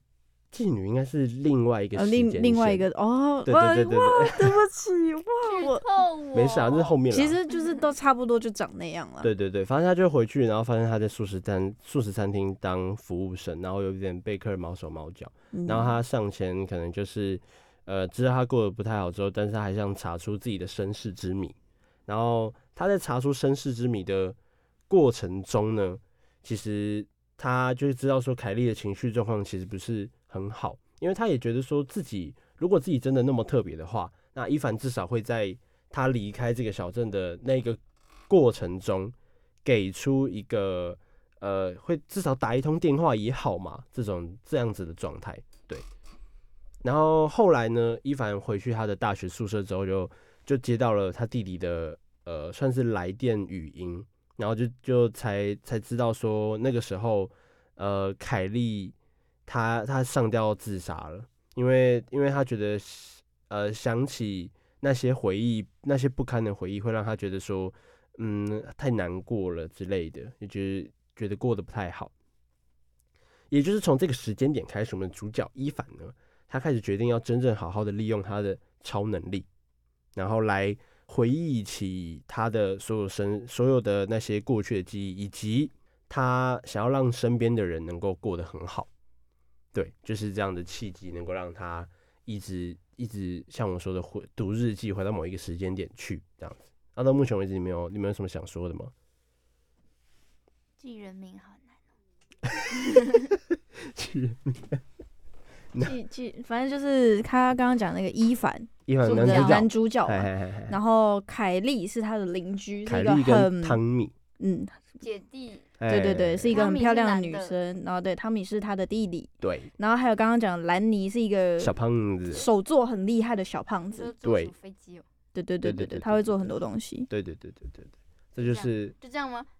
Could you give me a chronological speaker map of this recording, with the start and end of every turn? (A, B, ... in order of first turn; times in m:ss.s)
0:00.5-0:02.9 A
0:01.9-0:06.0 B
0:03.4-0:04.6 A
0:05.4-0:07.0 C
0:06.3-0:07.4 A
0:07.1-0:09.3 B
0:09.2-0:21.6 A
0:15.5-0:16.0 B
0:22.1-0:24.4 A
0:24.9-0:39.1 A
0:39.6-0:45.8 A
0:46.8-0:58.9 A
0:59.4-1:12.1 A
1:13.5-1:19.4 A
1:20.1-1:28.9 A
1:29.7-1:38.9 A
1:40.8-1:41.9 C
1:42.5-1:42.8 A
1:43.8-1:44.8 A
1:45.8-1:53.8 B
1:48.9-1:50.8 A
1:49.1-1:49.6 C
1:52.8-1:54.1 A
1:54.4-1:54.8 B
1:55.0-1:55.8 C
1:55.8-1:56.6 A
1:55.8-2:01.7 B
1:56.5-1:57.6 C
1:59.4-1:59.7 A
2:01.6-2:02.5 A
2:02.3-2:04.1 B
2:03.9-2:05.0 C
2:04.2-2:04.5 A
2:05.3-2:07.1 B
2:05.6-2:06.5 A
2:07.1-2:08.9 A
2:08.4-2:09.5 C